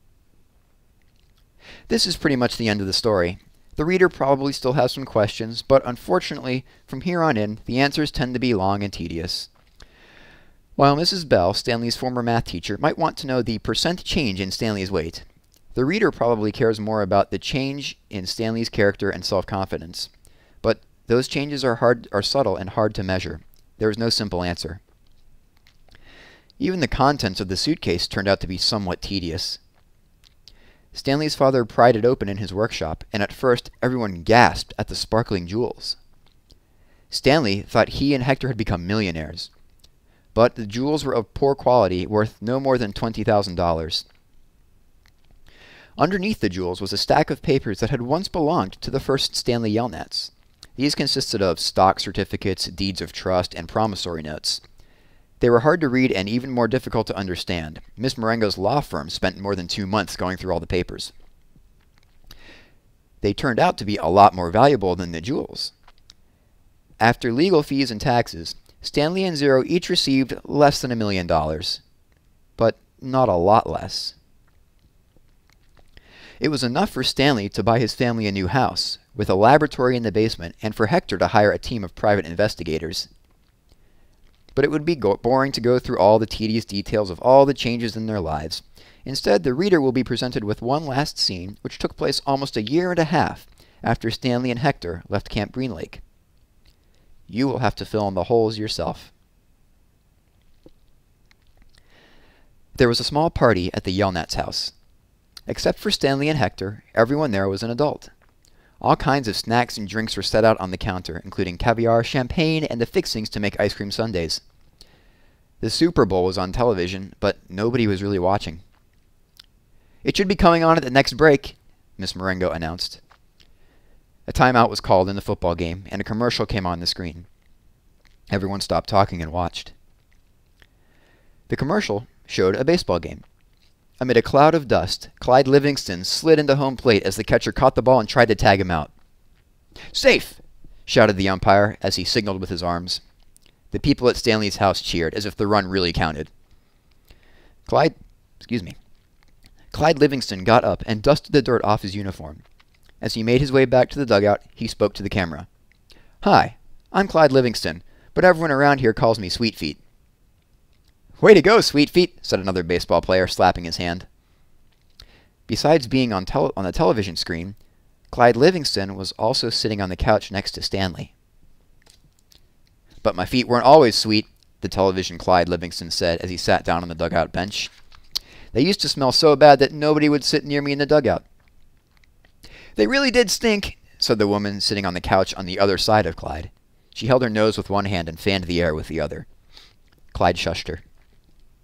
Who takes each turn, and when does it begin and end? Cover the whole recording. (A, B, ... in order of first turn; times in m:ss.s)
0:01.9-0:09.5 A
0:10.8-0:20.1 A
0:20.6-0:24.8 A
0:26.6-0:29.6 A
0:30.9-0:36.0 A
0:37.1-0:39.5 A
0:40.3-0:44.0 A
0:46.0-0:54.6 A
0:55.4-1:01.1 A
1:03.2-1:05.7 A
1:07.0-1:11.8 A
1:12.6-1:14.2 A
1:16.4-1:23.1 A
1:24.5-1:36.0 A
1:37.3-1:39.1 A
1:42.7-1:44.7 A
1:45.5-1:48.1 A
1:48.8-1:54.4 A
1:55.6-1:58.6 A
2:00.0-2:03.0 A
2:04.3-2:07.3 A
2:08.3-2:09.7 A
2:11.5-2:13.2 A
2:14.0-2:18.9 A
2:19.9-2:23.0 A
2:23.7-2:26.3 A
2:27.6-2:28.8 A
2:29.7-2:32.4 A
2:33.0-2:35.5 A
2:36.2-2:39.8 A
2:41.2-2:44.1 A
2:45.5-2:47.6 A
2:48.1-2:51.1 A
2:53.0-2:57.7 A
2:58.5-3:01.2 A
3:02.8-3:09.3 A
3:10.1-3:10.8 A